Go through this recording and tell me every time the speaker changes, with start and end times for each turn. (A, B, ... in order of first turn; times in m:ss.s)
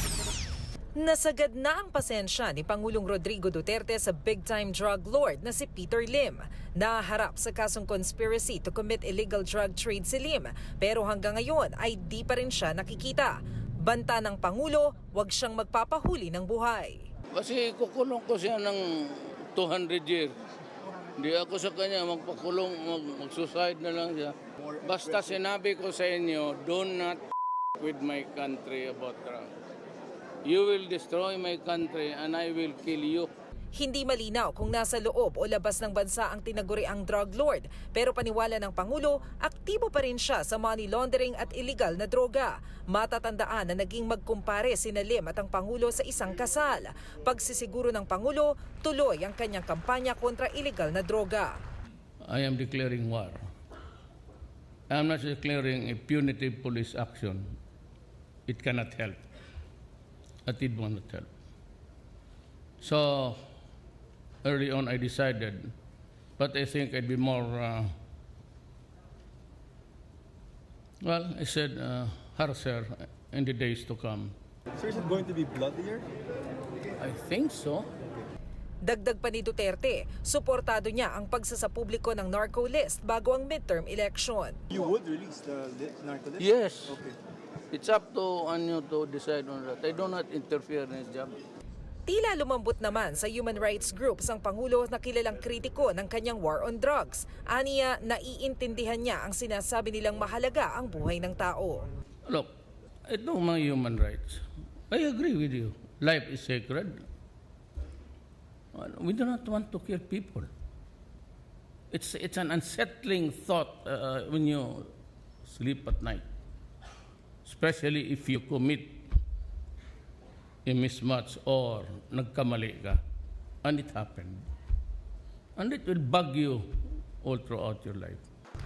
0:01.0-0:17.0 A
0:17.3-0:20.3 B
0:21.2-0:27.2 B
0:27.8-0:29.5 B
0:30.4-0:33.3 B
0:33.8-0:51.6 A
0:52.2-0:53.4 B
0:54.9-0:57.4 B
0:58.5-0:59.2 B
1:00.4-1:01.3 B
1:02.8-1:03.4 B
1:04.4-1:05.7 B
1:06.4-1:07.9 B
1:11.0-1:14.3 B
1:14.8-1:16.0 C
1:17.0-1:17.9 B
1:18.8-1:24.6 A
1:24.7-1:27.2 C
1:26.4-1:27.0 B
1:27.7-1:31.4 B
1:32.1-1:41.9 A
1:43.1-1:47.0 B
1:48.7-1:50.5 B
1:51.9-1:54.9 B
1:55.4-1:56.2 B
1:57.4-1:59.1 B
2:00.6-2:03.0 B
2:03.6-2:04.4 B
2:05.6-2:06.7 B
2:07.2-2:08.2 B